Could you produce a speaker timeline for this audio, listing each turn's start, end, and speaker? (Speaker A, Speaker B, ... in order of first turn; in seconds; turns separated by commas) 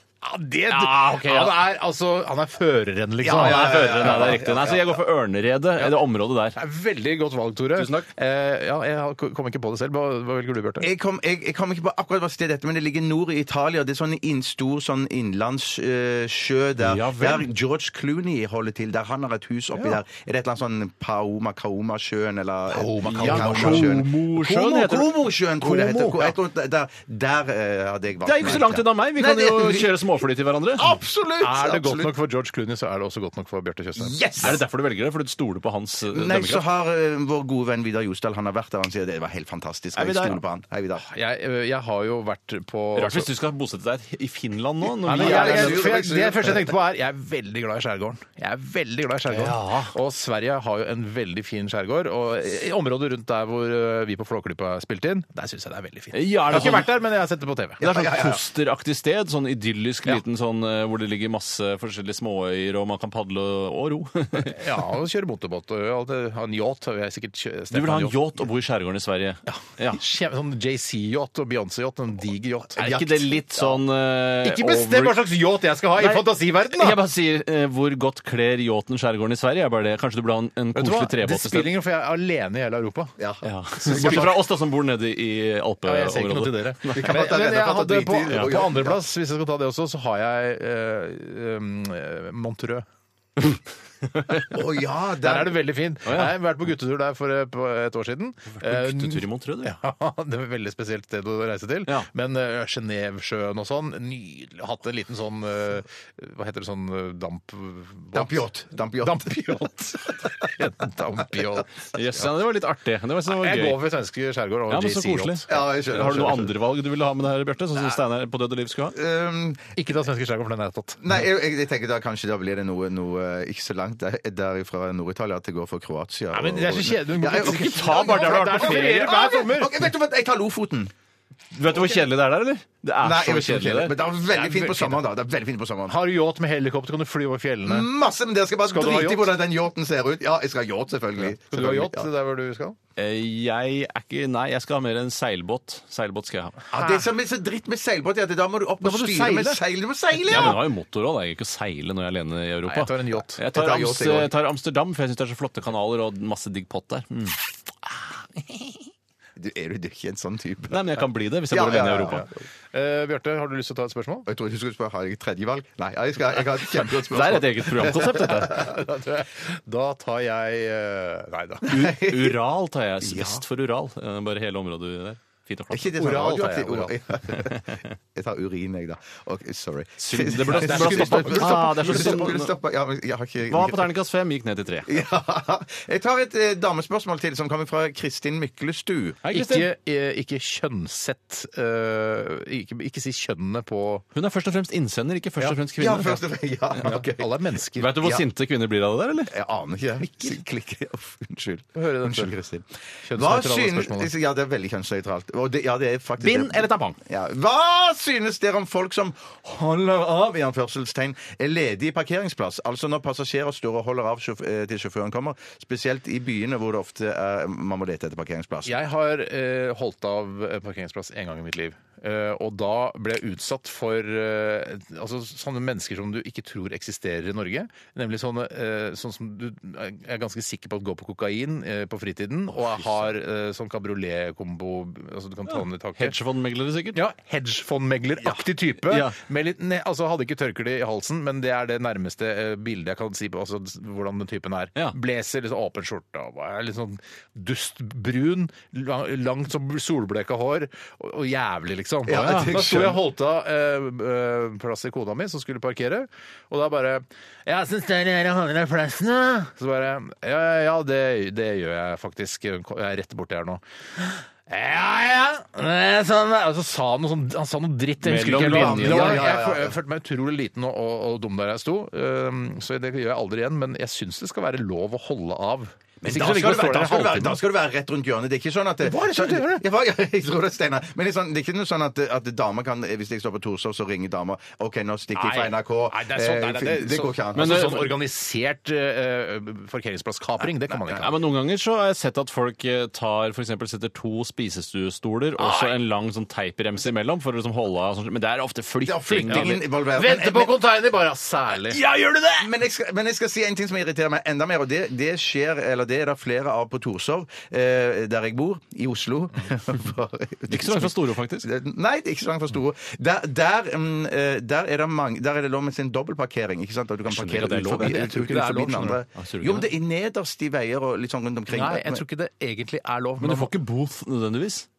Speaker A: 0.2-4.3, Speaker B: 0.7-1.5, Speaker C: 3.2-5.0, Speaker B: 3.3-6.6, Speaker A: 6.5-10.9, Speaker B: 7.8-8.1, Speaker C: 10.8-30.0, Speaker B: 16.9-17.4, Speaker A: 22.7-24.1, Speaker B: 23.0-26.3, Speaker B: 28.2-30.9, Speaker C: 30.8-32.1, Speaker A: 31.4-34.5, Speaker C: 34.0-34.6, Speaker B: 34.4-36.6, Speaker C: 36.1-41.0, Speaker B: 40.0-40.4, Speaker A: 41.0-43.3, Speaker B: 42.9-46.1, Speaker A: 45.0-57.8, Speaker C: 45.1-46.7, Speaker B: 49.3-49.9, Speaker B: 56.1-56.9, Speaker B: 57.8-64.7, Speaker C: 57.8-58.4, Speaker A: 64.4-68.2, Speaker B: 67.7-70.0, Speaker A: 69.5-73.3, Speaker B: 72.8-75.2, Speaker C: 72.8-73.7, Speaker A: 74.4-77.0, Speaker B: 76.0-81.7, Speaker A: 80.7-83.2, Speaker C: 83.2-84.3, Speaker B: 83.4-87.1, Speaker A: 83.8-84.3, Speaker A: 85.8-92.8, Speaker C: 86.9-89.0, Speaker B: 94.0-94.5, Speaker C: 94.5-95.6, Speaker A: 95.2-111.9, Speaker B: 96.0-96.3, Speaker B: 98.5-99.7, Speaker C: 108.1-109.4, Speaker B: 111.9-113.8, Speaker A: 113.3-115.6, Speaker B: 114.7-119.0, Speaker C: 115.5-116.5, Speaker C: 118.9-119.7, Speaker A: 119.8-121.0, Speaker C: 121.0-130.9, Speaker A: 126.3-129.8, Speaker B: 127.3-129.2, Speaker B: 131.5-134.9, Speaker C: 133.0-136.0, Speaker A: 135.9-137.9, Speaker C: 137.6-142.1, Speaker A: 138.6-139.3, Speaker A: 141.2-142.8, Speaker B: 143.0-146.6, Speaker C: 146.7-150.6, Speaker A: 146.7-147.0, Speaker B: 148.8-149.6, Speaker B: 150.1-157.4, Speaker A: 152.7-153.4, Speaker C: 153.5-154.3, Speaker C: 159.3-160.8, Speaker B: 160.7-162.2, Speaker C: 161.5-162.3, Speaker A: 162.7-164.3, Speaker C: 164.2-168.8, Speaker B: 166.9-168.7, Speaker A: 168.6-171.7, Speaker C: 171.6-172.4, Speaker B: 171.7-175.9, Speaker C: 173.0-173.4, Speaker C: 175.7-183.9, Speaker A: 176.0-176.9, Speaker B: 177.4-177.8, Speaker B: 180.0-182.5, Speaker A: 180.4-182.3, Speaker B: 183.5-185.0, Speaker C: 184.8-189.2, Speaker B: 189.2-189.7, Speaker A: 189.3-194.0, Speaker B: 194.1-196.2, Speaker C: 195.8-197.3, Speaker A: 196.8-197.9, Speaker B: 197.8-199.3, Speaker C: 198.0-198.2, Speaker C: 199.3-218.8, Speaker A: 201.8-202.3, Speaker A: 203.0-204.1, Speaker B: 206.2-207.0, Speaker A: 218.7-236.1, Speaker B: 235.5-237.0, Speaker A: 236.9-277.4, Speaker B: 238.8-239.2, Speaker C: 252.1-253.0, Speaker B: 252.1-252.5, Speaker B: 268.0-269.3, Speaker C: 268.4-269.8, Speaker C: 276.0-287.9, Speaker A: 278.8-279.6, Speaker A: 285.1-291.1, Speaker B: 287.4-287.9, Speaker C: 290.4-291.1, Speaker B: 291.0-299.6, Speaker A: 295.4-295.7, Speaker C: 298.8-300.6, Speaker A: 299.2-301.9, Speaker B: 301.8-302.4, Speaker C: 302.4-322.0, Speaker B: 310.5-311.5, Speaker B: 317.1-318.1, Speaker A: 317.7-319.0, Speaker B: 319.1-319.7, Speaker A: 321.5-323.5, Speaker B: 323.2-324.7